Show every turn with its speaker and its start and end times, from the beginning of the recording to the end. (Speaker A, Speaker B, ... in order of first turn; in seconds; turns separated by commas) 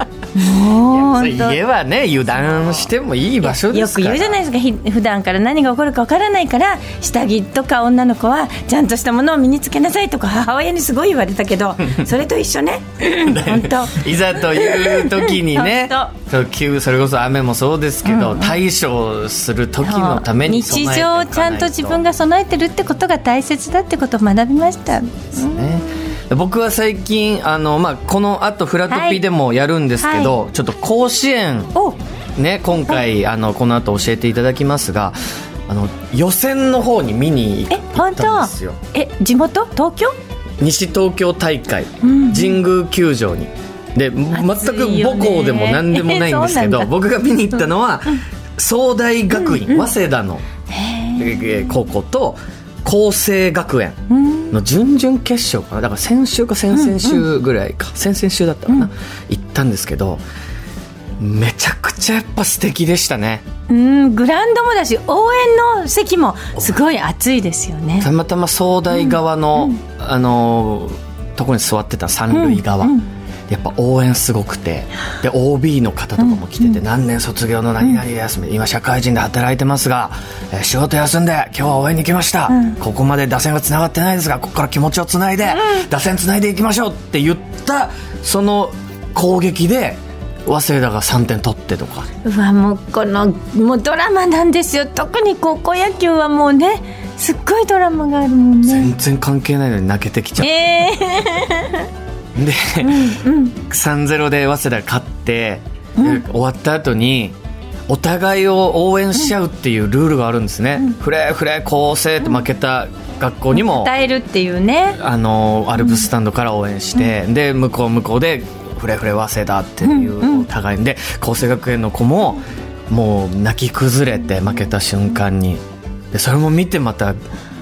Speaker A: 0.3-1.6, Speaker B: 0.7-4.4, Speaker A: 2.5-2.8, Speaker A: 3.4-16.1, Speaker B: 13.0-22.0, Speaker A: 18.1-18.6, Speaker A: 19.8-25.9, Speaker B: 25.4-31.7, Speaker A: 28.9-29.2, Speaker A: 30.0-30.3, Speaker B: 32.4-35.2, Speaker B: 35.7-38.8, Speaker A: 37.7-40.2, Speaker B: 40.6-50.5, Speaker A: 42.0-42.6, Speaker A: 44.3-46.9, Speaker A: 49.3-49.9, Speaker A: 50.7-51.7, Speaker B: 51.2-54.0, Speaker A: 54.1-54.5, Speaker B: 54.5-60.2, Speaker A: 56.7-57.2, Speaker B: 61.2-63.4, Speaker A: 63.7-68.1, Speaker B: 68.0-73.0, Speaker A: 68.9-69.8, Speaker A: 72.3-73.1, Speaker B: 73.5-92.1, Speaker A: 76.2-76.8, Speaker A: 82.5-82.8, Speaker A: 92.2-98.9, Speaker B: 98.6-100.5, Speaker A: 100.4-101.9, Speaker B: 102.3-107.4, Speaker A: 102.8-103.6, Speaker A: 106.0-106.2, Speaker B: 107.9-113.9, Speaker A: 113.5-115.0, Speaker B: 115.0-125.6, Speaker A: 115.8-116.1, Speaker A: 119.8-120.5, Speaker B: 126.1-127.2